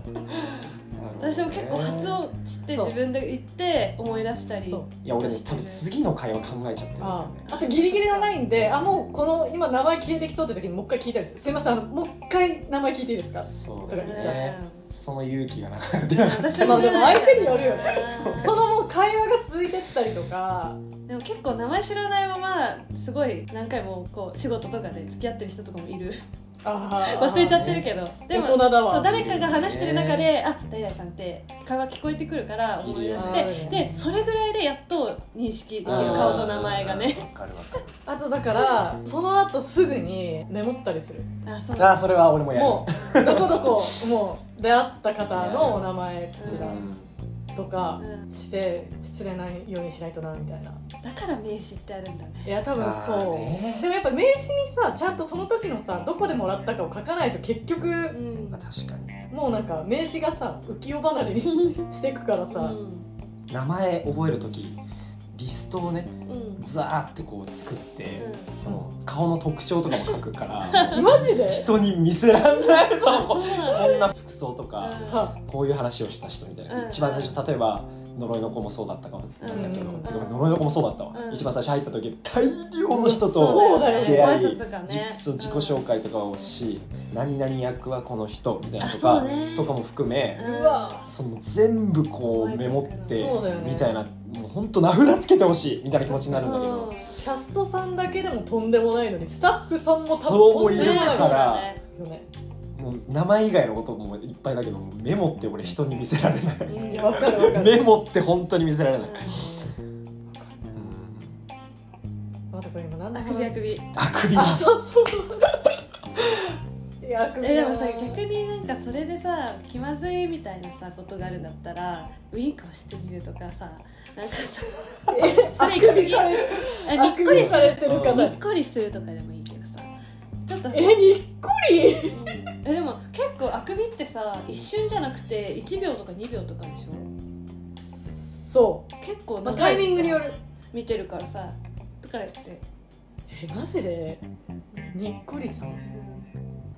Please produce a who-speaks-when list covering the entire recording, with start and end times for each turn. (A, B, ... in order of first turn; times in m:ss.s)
0:00.9-0:02.2 A
0:01.2-0:05.8 B
0:05.0-0:07.5 A
0:07.0-0:14.5 C
0:07.5-0:08.4 B
0:08.5-0:08.9 A
0:13.4-0:18.6 A
0:14.0-0:14.8 B
0:16.1-0:18.6 B
0:16.6-0:20.8 C
0:21.1-0:26.2 B
0:26.6-0:27.8 C
0:27.0-0:37.2 B
0:27.3-0:27.9 A
0:28.3-0:29.3 C
0:29.1-0:30.3 A
0:32.8-0:33.6 A
0:33.1-0:34.0 C
0:35.8-0:38.0 A
0:35.9-0:36.5 C
0:38.1-0:41.3 C
0:41.4-0:42.0 B
0:41.8-0:43.9 A
0:42.5-0:46.8 C
0:43.0-0:43.4 B
0:45.3-0:45.9 A
0:46.4-0:46.9 B
0:46.4-0:47.1 A
0:47.6-0:50.8 C
0:48.0-0:48.3 B
0:51.0-0:52.5 B
0:52.4-0:58.2 C
0:52.7-0:53.9 A
0:58.1-0:58.6 B
0:58.5-0:59.2 A
0:59.3-1:02.8 C
1:01.5-1:01.8 B
1:02.5-1:03.1 B
1:03.5-1:04.8 A
1:05.3-1:30.5 A
1:06.3-1:06.7 B
1:08.2-1:08.6 B
1:09.9-1:10.2 B
1:10.7-1:11.1 B
1:10.9-1:11.7 C
1:12.6-1:14.1 B
1:14.8-1:15.3 B
1:15.1-1:15.3 C
1:16.7-1:17.4 B
1:19.4-1:20.4 B
1:19.5-1:20.1 C
1:21.1-1:21.5 B
1:22.9-1:24.4 C
1:23.3-1:25.8 B
1:28.8-1:29.8 B
1:30.4-1:31.0 B
1:30.4-1:31.1 C
1:31.0-1:37.0 A
1:32.2-1:33.3 B
1:33.0-1:34.0 C
1:36.2-1:37.1 B
1:37.2-1:42.3 C
1:39.9-1:41.7 A
1:40.7-1:41.8 B
1:42.8-1:49.5 A
1:46.7-1:47.8 C
1:46.7-1:47.1 B
1:49.0-1:49.4 B
1:49.3-1:49.7 C
1:50.3-1:50.6 C
1:50.7-1:51.4 A
1:52.5-1:53.8 C
1:53.1-1:53.9 B
1:53.9-1:54.7 A
1:54.3-1:55.5 C
1:56.2-1:58.2 C
1:57.4-2:09.9 B
2:05.1-2:08.4 C
2:07.3-2:08.3 A
2:10.5-2:11.0 B
2:10.7-2:12.2 C
2:12.1-2:17.1 B
2:17.9-2:18.9 C
2:19.0-2:22.6 B
2:19.4-2:20.4 C
2:23.3-2:24.2 C
2:24.9-2:25.8 C
2:25.9-2:26.3 B